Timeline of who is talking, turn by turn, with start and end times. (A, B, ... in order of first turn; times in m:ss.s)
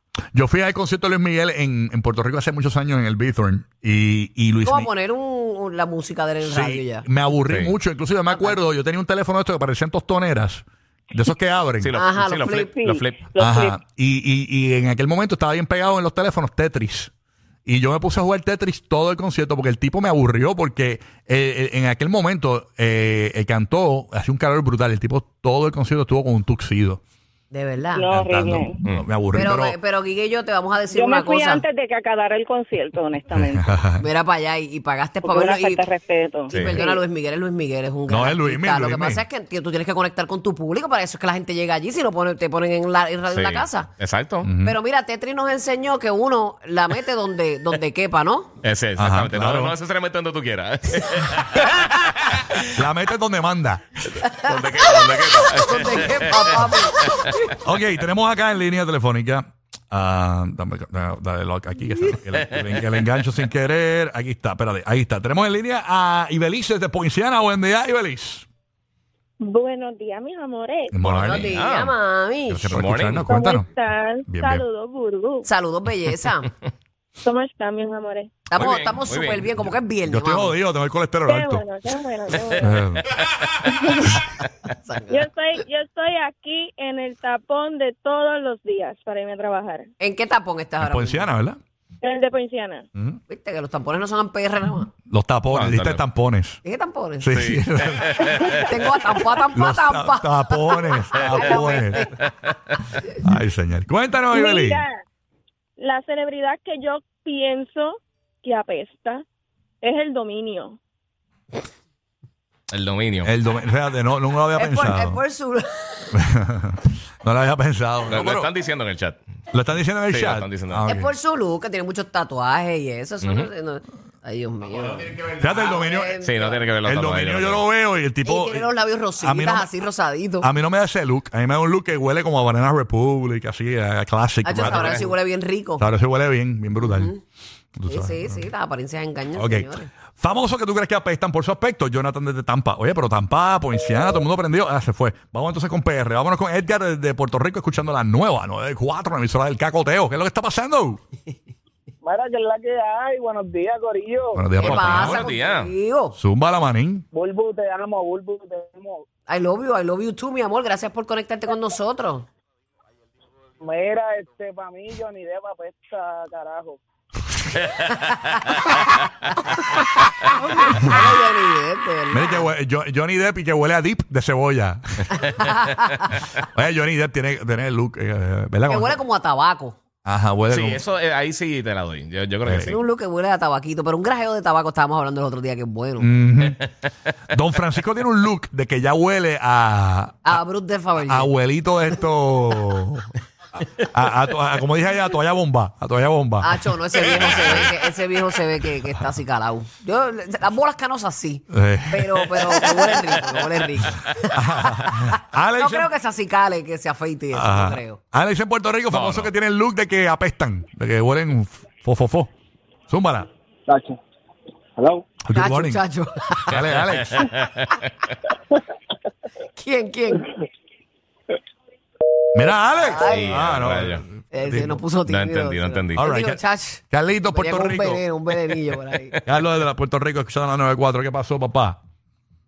0:00.3-0:04.9 A
0:04.6-0:07.0 B
0:06.4-0:12.0 A
0:07.5-0:07.7 C
0:08.3-0:08.6 B
0:11.8-0:13.3 C
0:11.9-0:12.8 B
0:12.7-0:13.8 D
0:13.4-0:17.1 A
0:17.6-0:27.0 A
0:27.5-0:28.1 B
0:27.9-0:28.8 D
0:28.1-0:29.8 A
0:29.3-0:31.6 B
0:30.9-0:33.8 D
0:33.4-0:34.0 A
0:34.0-0:35.9 B
0:35.2-0:37.0 D
0:36.5-0:36.8 C
0:36.5-0:43.9 B
0:38.1-0:39.2 A
0:43.3-0:44.5 C
0:44.4-0:44.7 A
0:44.6-0:48.5 B
0:48.6-0:52.6 C
0:49.0-0:49.8 A
0:52.7-0:54.2 A
0:54.3-0:57.3 C
0:55.3-0:57.5 B
0:57.5-1:08.4 A
1:09.4-1:10.9 D
1:10.9-1:11.5 A
1:11.0-1:11.9 C
1:11.2-1:12.7 B
1:12.5-1:13.7 A
1:12.7-1:13.2 C
1:13.2-1:15.4 D
1:14.3-1:14.6 A
1:15.4-1:16.5 B
1:17.2-1:18.3 D
1:18.4-1:20.5 B
1:18.6-1:19.5 C
1:20.0-1:21.6 A
1:21.3-1:22.7 D
1:22.6-1:23.2 A
1:23.7-1:24.1 D
1:24.7-1:25.2 B
1:25.1-1:29.9 D
1:30.0-1:31.3 B
1:30.8-1:31.6 A
1:32.0-1:32.8 D
1:33.3-1:34.9 B
1:35.1-1:36.6 A
1:35.5-1:36.0 C
1:36.6-1:37.3 B
1:37.2-1:38.4 A
1:37.3-1:38.6 C
1:38.2-1:42.3 B
1:39.5-1:42.1 A
1:43.2-1:44.8 A
1:44.3-1:45.0 D
1:45.8-1:49.2 D
1:49.8-1:50.8 D
1:52.7-1:53.3 C
1:53.2-1:55.2 A
1:54.5-1:56.2 B
1:56.1-1:58.5 A
1:58.1-1:59.2 C
1:59.5-2:01.1 A
2:00.1-2:00.8 C
2:00.8-2:06.6 B
2:03.2-2:03.5 C
2:05.4-2:06.2 A
2:06.2-2:07.6 C
2:06.8-2:08.7 A
2:08.2-2:10.5 B
2:09.2-2:09.7 A
2:10.4-2:15.1 A
2:14.4-2:15.8 B
2:14.6-2:15.0 C
2:15.8-2:17.1 A
2:16.8-2:17.2 B
2:17.7-2:18.4 A
2:17.9-2:19.9 B
2:19.4-2:31.0 A
2:32.0-2:34.4 E
2:34.3-2:35.2 A
2:34.6-2:36.2 B
2:34.6-2:35.7 C
2:36.2-2:37.0 A
2:37.1-2:39.0 E
2:39.3-2:42.2 B
2:43.6-2:46.8 E
2:47.6-2:48.5 C
2:50.6-2:52.5 B
2:52.1-2:55.2 A
2:55.2-2:56.0 B
2:56.4-2:59.0 A
2:58.7-2:59.8 B
3:00.0-3:00.8 A
3:00.5-3:02.8 C
3:02.4-3:02.7 A
3:02.7-3:06.1 B
3:06.0-3:06.6 A
3:07.3-3:10.4 A
3:10.2-3:11.3 B
3:11.0-3:13.1 A
3:13.7-3:16.6 A
3:16.4-3:25.0 B
3:21.5-3:22.6 A
3:24.3-3:25.9 A
3:25.6-3:28.0 B
3:27.3-3:32.3 A
3:28.9-3:29.3 C
3:32.9-3:33.3 A
3:33.7-3:34.0 E
3:34.8-3:35.0 E
3:35.2-3:35.8 A
3:35.3-3:36.6 B
3:36.5-3:37.3 A
3:37.1-3:37.8 C
3:39.6-3:40.3 B
3:42.3-3:44.8 A
3:42.8-3:43.4 B
3:43.0-3:44.0 C
3:44.3-3:49.2 B
3:45.0-3:46.0 C
3:45.9-3:46.4 A
3:46.9-3:48.0 A
3:49.2-3:51.8 A